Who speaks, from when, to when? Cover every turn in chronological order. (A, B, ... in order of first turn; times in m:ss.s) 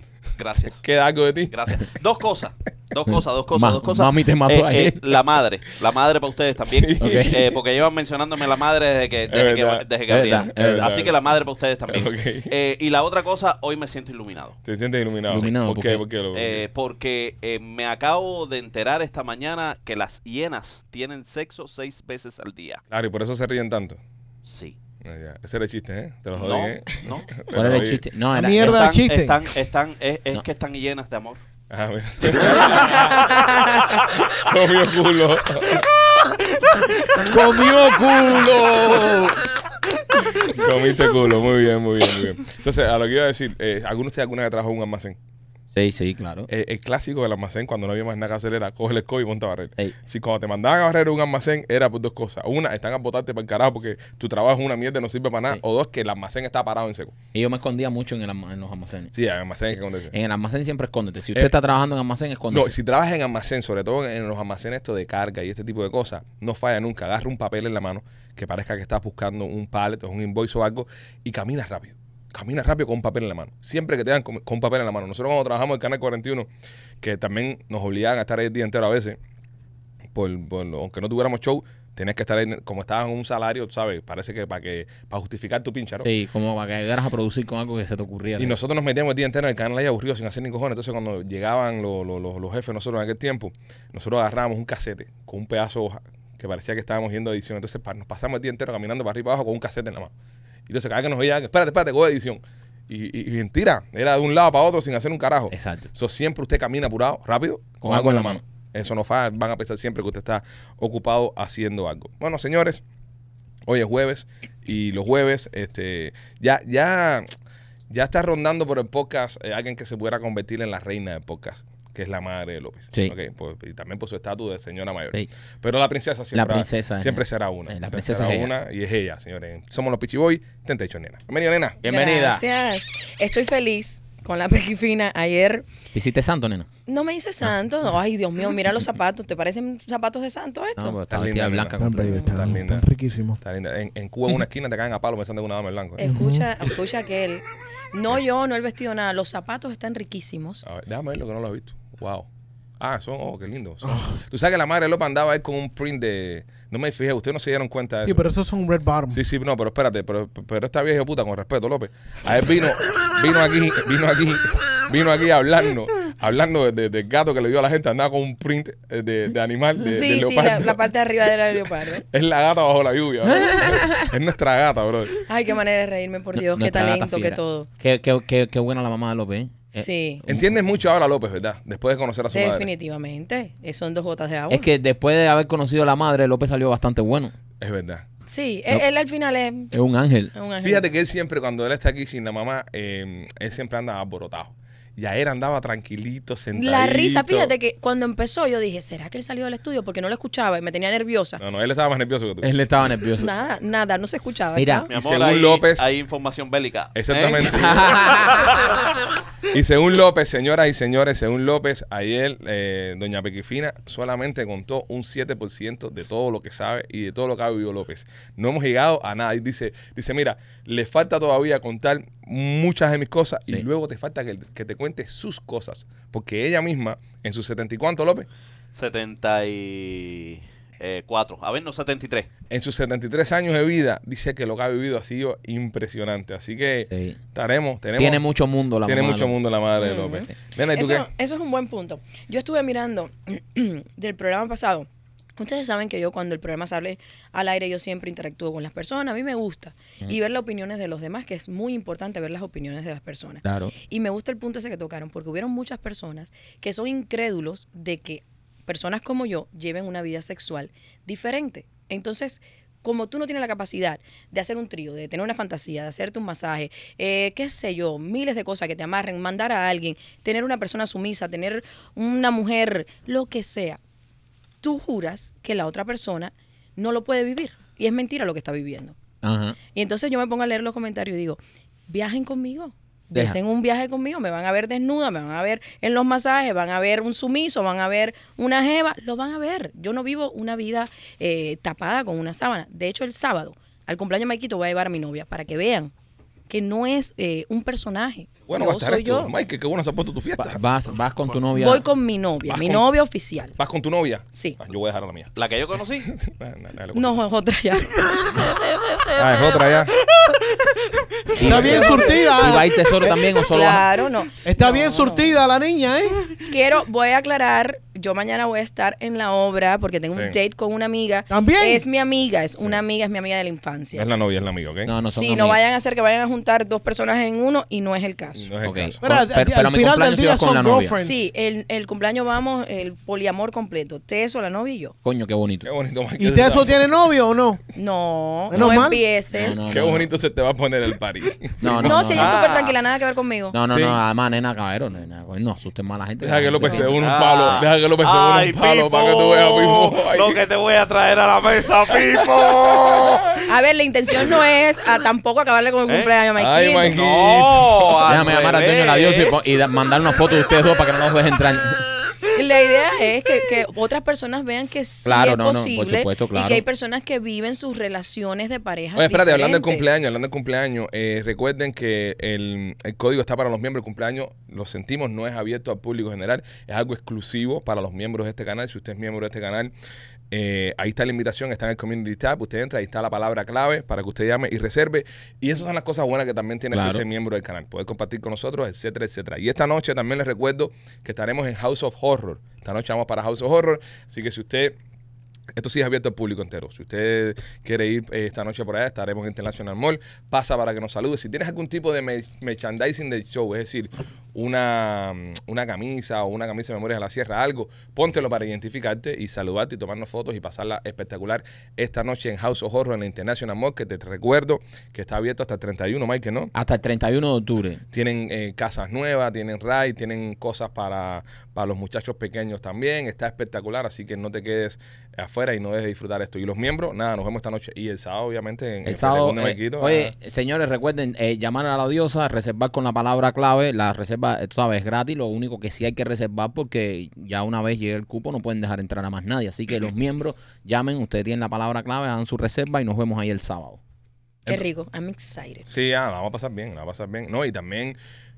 0:00.4-0:00.8 A
0:00.7-0:01.7 B
0:01.5-0:14.6 A
0:03.1-0:05.0 C
0:06.7-0:07.4 B
0:07.0-0:07.4 C
0:09.3-0:11.2 B
0:10.1-0:10.9 C
0:11.9-0:12.5 B
0:14.6-0:16.7 B
0:15.3-0:16.0 C
0:16.3-0:22.8 A
0:22.9-0:24.0 B
0:24.5-0:24.8 A
0:25.0-0:28.0 B
0:26.4-0:27.3 A
0:27.5-0:28.9 C
0:28.3-0:29.4 D
0:28.6-0:31.4 A
0:31.7-0:33.3 B
0:32.3-0:32.9 A
0:32.9-0:34.0 E
0:34.1-0:35.9 B
0:37.2-0:39.4 C
0:40.4-0:45.2 B
0:45.7-0:46.5 C
0:46.5-0:57.1 B
0:57.3-0:59.1 C
0:59.1-1:00.1 B
1:00.1-1:02.7 C
1:02.5-1:16.5 B
1:17.0-1:19.2 B
1:20.2-1:26.1 B
1:26.0-1:28.6 C
1:28.4-1:40.1 B
1:40.7-1:52.8 B
1:45.5-1:45.9 C
1:47.8-1:48.4 C
1:53.7-1:57.3 B
1:57.9-2:11.8 B
2:06.3-2:08.5 C
2:11.8-2:12.4 C
2:11.8-2:15.7 E
2:15.9-2:16.7 C
2:16.9-2:21.0 E
2:20.8-2:22.3 C
2:21.1-2:22.8 B
2:21.8-2:23.4 D
2:22.0-2:22.4 E
2:23.4-2:26.1 B
2:26.0-2:30.6 E
2:26.0-2:26.5 D
2:30.6-2:32.3 B
2:32.8-2:38.3 B
2:33.9-2:34.1 D
2:38.1-2:39.2 D
2:39.1-2:55.2 B
2:49.8-2:52.0 E
2:53.3-2:54.1 C
2:55.3-2:57.7 E
2:56.4-3:00.5 C
2:59.7-3:00.2 E
3:00.3-3:02.7 B
3:02.3-3:04.7 E
3:04.5-3:07.3 C
3:07.6-3:08.0 B
3:08.3-3:09.7 E
3:09.7-3:10.3 C
3:10.4-3:10.8 E
3:10.6-3:17.5 B
3:16.6-3:21.4 E
3:21.4-3:22.5 B
3:22.4-3:23.3 C
3:23.2-3:24.9 E
3:24.6-3:24.9 C
3:24.9-3:28.8 A
3:24.9-3:25.9 B
3:27.0-3:28.4 B
3:27.5-3:28.5 C
3:29.5-3:48.3 B
3:48.8-3:52.3 A
3:52.5-3:58.2 B
3:56.9-3:57.2 C
3:58.0-3:59.3 C
3:58.8-4:01.1 B
3:59.8-4:33.8 E
4:13.4-4:13.7 C
4:34.6-4:39.0 E
4:39.2-4:39.6 C
4:39.7-4:55.9 E
4:56.5-4:59.3 E
4:58.5-5:00.7 B
5:00.4-5:01.8 C
5:01.5-5:03.6 E
5:02.5-5:02.8 B
5:03.6-5:05.4 B
5:05.4-5:06.1 A
5:06.0-5:07.2 B
5:07.0-5:08.4 E
5:09.2-5:09.9 B
5:11.4-5:13.9 C
5:11.4-5:12.6 E
5:11.4-5:13.3 D
5:11.4-5:11.8 B
5:13.4-5:15.4 E
5:14.4-5:16.3 D
5:16.4-5:24.1 E
5:20.1-5:20.4 B
5:21.3-5:21.8 D
5:24.0-5:24.9 B
5:24.9-5:25.6 C
5:25.1-5:28.5 E
5:28.4-5:29.0 B
5:28.6-5:31.0 C
5:29.0-5:31.3 D
5:31.0-5:35.0 E
5:35.0-5:35.7 C
5:35.6-5:36.9 B
5:36.2-5:37.6 D
5:37.8-5:39.6 E
5:38.5-5:39.0 D
5:38.5-5:40.1 C
5:39.7-5:42.0 B
5:41.6-5:42.4 C
5:41.8-5:43.6 E
5:42.1-5:42.8 A
5:43.5-5:46.9 C
5:43.7-5:44.0 B
5:46.2-5:50.4 B
5:46.8-5:53.4 A
5:53.5-5:57.0 E
5:55.9-5:56.1 A
5:56.4-5:58.0 B
5:56.9-5:59.4 A
5:58.0-6:01.9 C
6:02.3-6:09.9 E
6:05.0-6:06.6 C
6:09.0-6:19.7 B
6:20.3-6:34.8 B
6:26.7-6:27.0 C
6:35.6-6:56.5 B
6:56.5-6:57.8 C
6:57.9-7:10.1 B
7:08.8-7:23.8 C
7:24.5-7:25.7 E
7:25.7-7:28.0 B